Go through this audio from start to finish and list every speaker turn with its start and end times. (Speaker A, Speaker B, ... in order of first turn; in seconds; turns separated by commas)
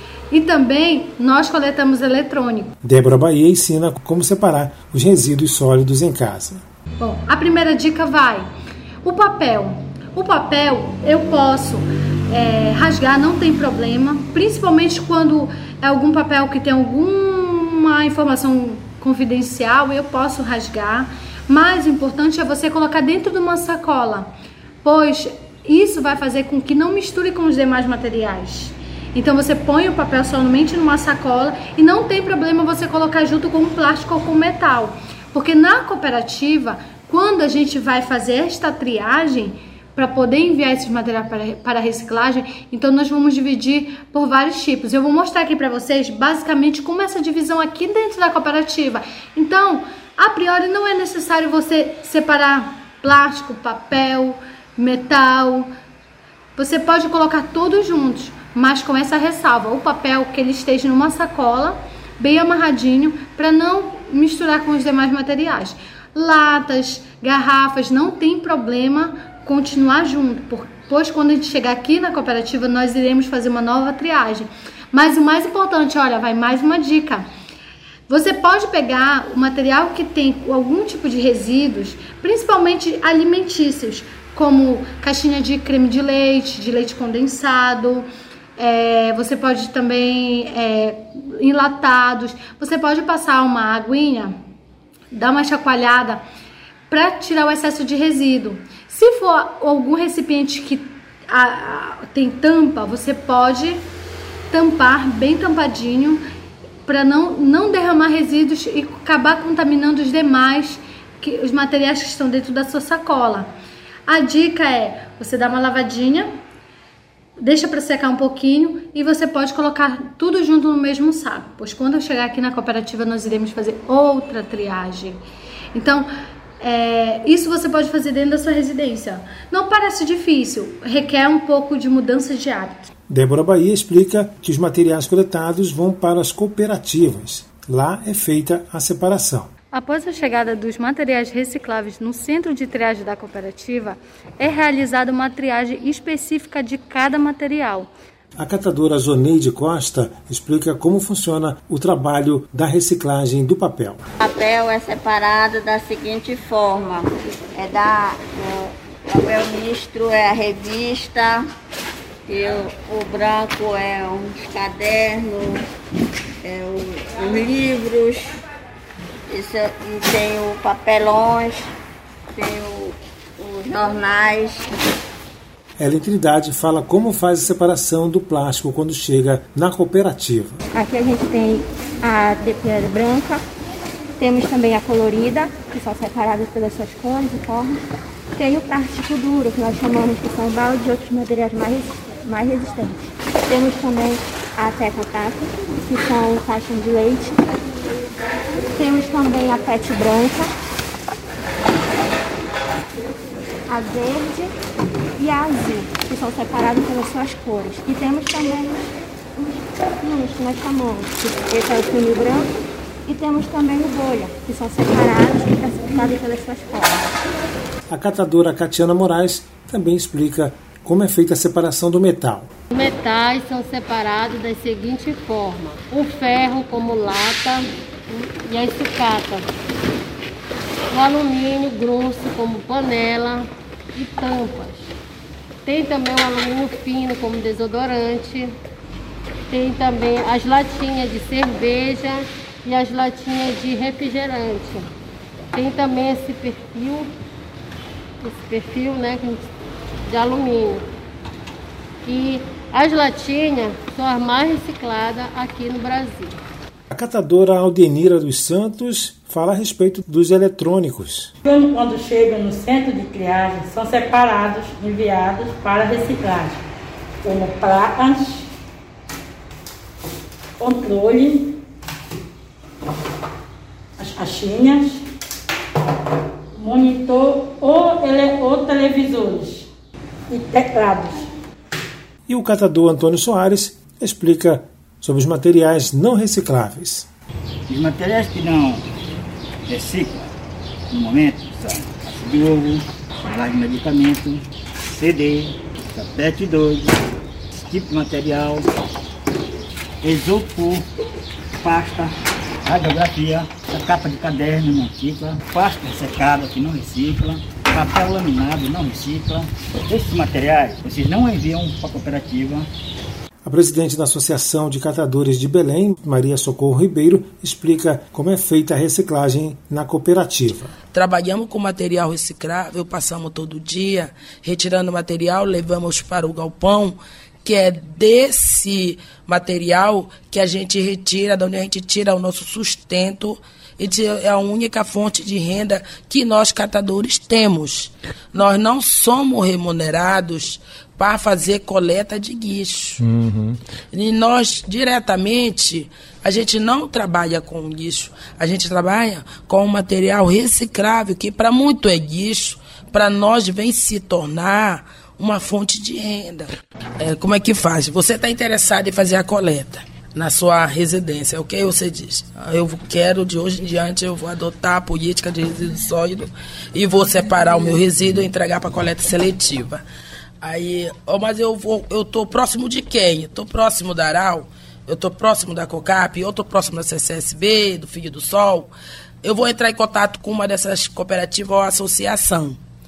Speaker A: 0.3-2.7, Speaker B: 2.8-6.6, Speaker A: 7.0-8.5, Speaker A: 9.0-24.3, Speaker A: 24.8-55.7, Speaker A: 56.6-77.2, Speaker A: 78.1-94.3, Speaker A: 95.1-96.2, Speaker A: 96.9-103.8, Speaker A: 104.5-106.2, Speaker A: 106.8-113.5, Speaker A: 114.1-116.3, Speaker A: 117.4-125.2, Speaker A: 125.7-126.1, Speaker A: 126.6-132.9, Speaker B: 133.1-139.5, Speaker A: 139.7-147.9, Speaker B: 148.4-154.0, Speaker C: 154.2-161.4, Speaker C: 162.3-165.7, Speaker C: 166.4-168.3, Speaker C: 169.3-171.7, Speaker C: 172.3-174.7, Speaker B: 175.8-180.6, Speaker D: 180.7-183.4, Speaker D: 184.2-187.8, Speaker D: 188.3-197.4, Speaker D: 198.7-200.5, Speaker D: 203.7-204.5, Speaker D: 205.2-212.5, Speaker D: 213.1-217.1, Speaker B: 217.9-222.5, Speaker E: 222.7-229.5, Speaker E: 230.9-234.9, Speaker E: 235.6-238.5, Speaker E: 239.5-244.9, Speaker E: 245.5-247.1, Speaker E: 248.2-249.5, Speaker E: 250.1-250.9, Speaker E: 252.0-256.4, Speaker B: 256.9-261.3, Speaker F: 261.4-266.6, Speaker F: 267.2-268.5, Speaker F: 270.6-271.5, Speaker F: 274.0-275.0, Speaker F: 276.5-279.7, Speaker F: 280.3-281.3, Speaker B: 282.3-287.1, Speaker G: 287.7-288.8, Speaker G: 289.7-290.3, Speaker G: 290.9-297.0, Speaker G: 297.6-298.7, Speaker G: 300.0-300.9, Speaker G: 301.6-302.1, Speaker G: 302.6-312.7, Speaker B: 313.4-320.7, Speaker H: 320.9-343.0, Speaker H: 343.9-369.8, Speaker H: 370.4-378.7, Speaker H: 379.2-382.6